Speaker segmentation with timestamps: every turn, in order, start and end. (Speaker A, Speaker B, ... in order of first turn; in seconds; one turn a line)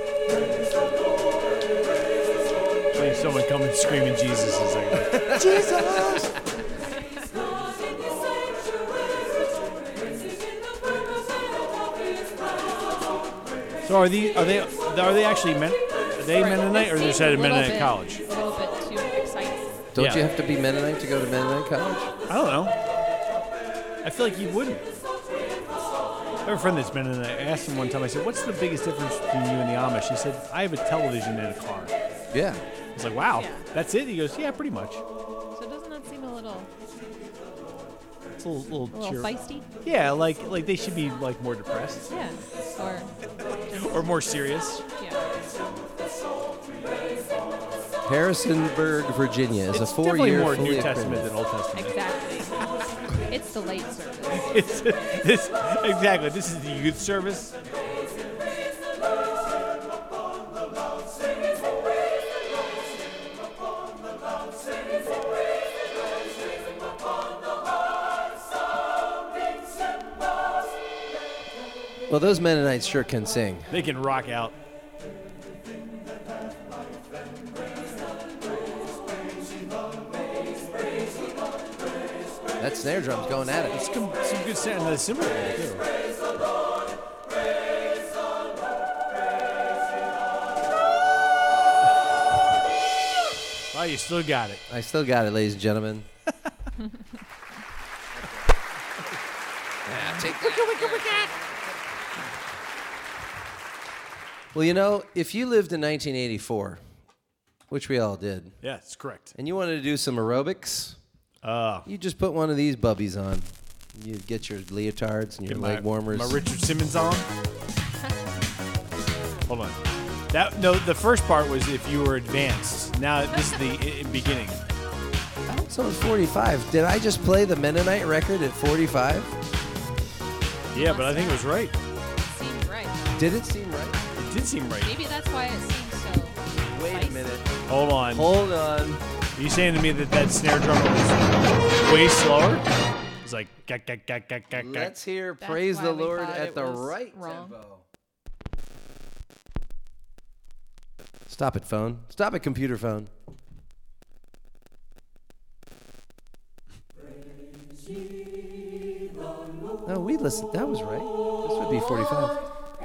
Speaker A: 2.9-6.3
Speaker B: 5.1-6.3
Speaker A: 13.8-18.2
Speaker C: 16.3-19.8
Speaker B: 19.9-22.1
Speaker A: 19.9-20.2
Speaker A: 22.3-22.7
Speaker A: 24.0-25.0
Speaker A: 26.4-31.9
Speaker B: 32.3-32.6
Speaker A: 32.9-35.0
Speaker C: 33.3-33.6
Speaker C: 35.5-36.7
Speaker A: 38.4-39.3
Speaker C: 38.9-39.7
Speaker A: 39.8-42.1
Speaker C: 42.1-44.0
Speaker A: 43.8-44.8
Speaker C: 45.0-45.3
Speaker B: 48.0-51.3
Speaker A: 49.7-51.9
Speaker C: 51.7-54.5
Speaker A: 54.4-57.5
Speaker B: 72.1-73.7
Speaker A: 73.7-74.5
Speaker B: 82.6-83.8
Speaker A: 83.7-85.8
Speaker A: 93.7-94.6
Speaker B: 94.7-96.1
Speaker B: 99.8-101.1
Speaker A: 100.0-101.3
Speaker B: 104.5-106.8
Speaker B: 107.7-108.6
Speaker A: 108.6-109.3
Speaker B: 109.3-111.0
Speaker A: 111.4-111.9
Speaker B: 111.8-116.4
Speaker A: 115.5-117.3
Speaker A: 119.5-119.8
Speaker A: 120.3-124.6
Speaker B: 125.5-129.3
Speaker A: 130.7-131.7
Speaker C: 130.7-131.4
Speaker C: 132.2-133.2
Speaker B: 133.2-134.0
Speaker A: 134.2-134.9
Speaker C: 134.8-137.4
Speaker B: 136.7-137.5
Speaker A: 137.7-138.3
Speaker B: 138.1-139.0
Speaker A: 139.3-142.6
Speaker A: 143.2-144.9
Speaker B: 144.5-147.8
Speaker C: 145.4-147.6
Speaker B: 151.3-153.1
Speaker B: 159.8-162.4